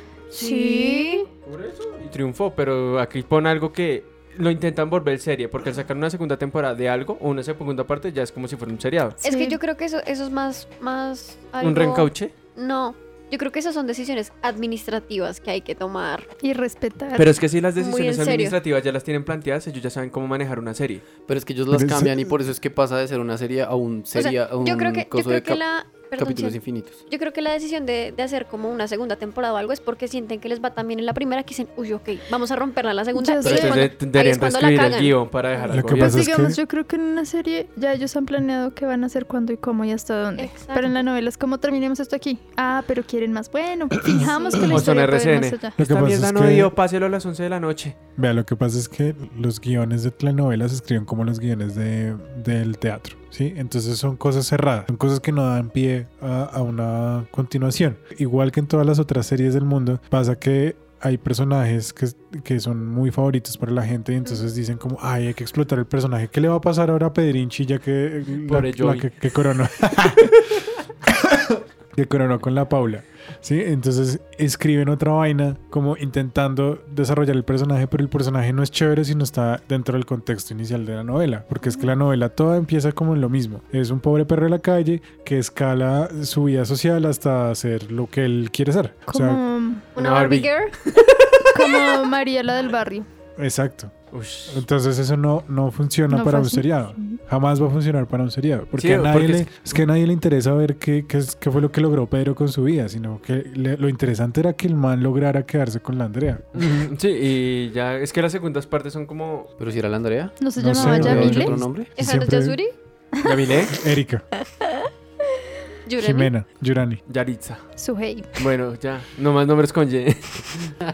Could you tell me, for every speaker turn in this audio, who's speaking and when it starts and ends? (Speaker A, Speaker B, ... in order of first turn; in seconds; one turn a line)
Speaker A: 0.3-1.3
Speaker B: 0.3-1.3
Speaker C: 1.4-9.2
Speaker B: 9.2-16.3
Speaker A: 9.2-9.6
Speaker C: 11.6-12.3
Speaker A: 16.4-17.3
Speaker C: 17.1-21.0
Speaker B: 17.8-18.6
Speaker D: 21.3-25.6
Speaker E: 21.7-22.3
Speaker B: 24.1-35.2
Speaker D: 26.1-27.0
Speaker A: 33.1-33.9
Speaker C: 33.4-36.2
Speaker E: 35.7-36.6
Speaker A: 36.0-45.8
Speaker B: 40.4-41.0
Speaker B: 44.2-44.9
Speaker C: 44.7-48.0
Speaker E: 45.8-46.7
Speaker E: 48.2-89.4
Speaker C: 68.5-69.1
Speaker C: 70.2-70.6
Speaker A: 89.1-89.8
Speaker B: 89.9-90.8
Speaker C: 90.0-91.5
Speaker A: 91.5-93.0
Speaker E: 93.4-93.9
Speaker C: 94.1-94.6
Speaker E: 94.5-106.6
Speaker A: 96.1-97.2
Speaker C: 98.8-99.8
Speaker C: 106.5-109.5
Speaker D: 109.6-111.9
Speaker A: 110.4-111.5
Speaker E: 110.5-112.6
Speaker B: 112.0-112.7
Speaker C: 113.2-113.8
Speaker E: 113.7-114.2
Speaker B: 115.8-116.3
Speaker E: 116.0-117.0
Speaker C: 117.1-117.6
Speaker A: 117.8-118.3
Speaker C: 118.4-120.7